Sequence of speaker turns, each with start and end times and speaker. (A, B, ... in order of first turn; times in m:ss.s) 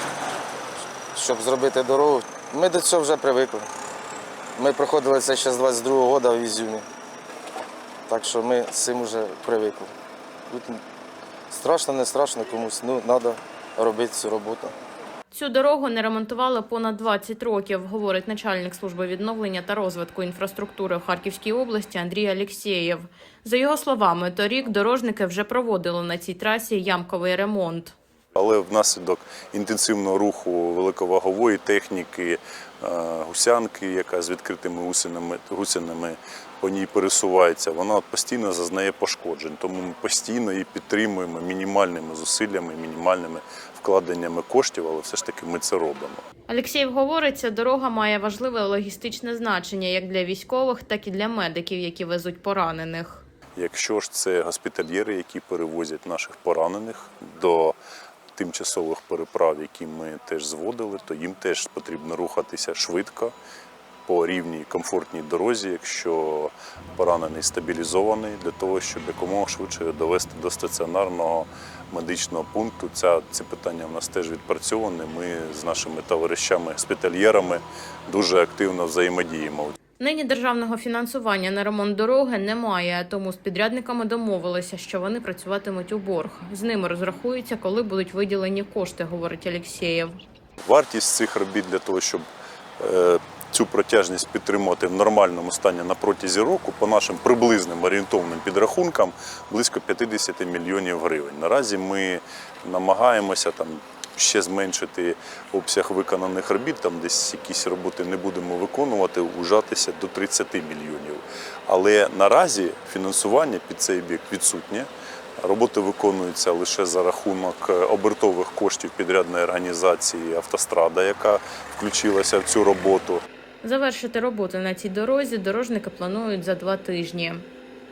0:01.1-0:03.7 A
0:04.6-0:06.8 A
0:08.1-0:09.9 A
0:10.5-0:10.8 A
0:11.5-0:14.7 A
0:15.3-0:27.9 B
0:28.3-0:46.2 C
0:46.5-0:53.2 B
0:53.6-0:57.8 C
0:58.4-1:03.3 C
1:04.0-1:19.8 C
1:20.0-1:30.2 B
1:30.6-1:32.2 C
1:32.8-1:54.9 C
1:55.4-2:03.2 C
2:03.6-2:07.4 B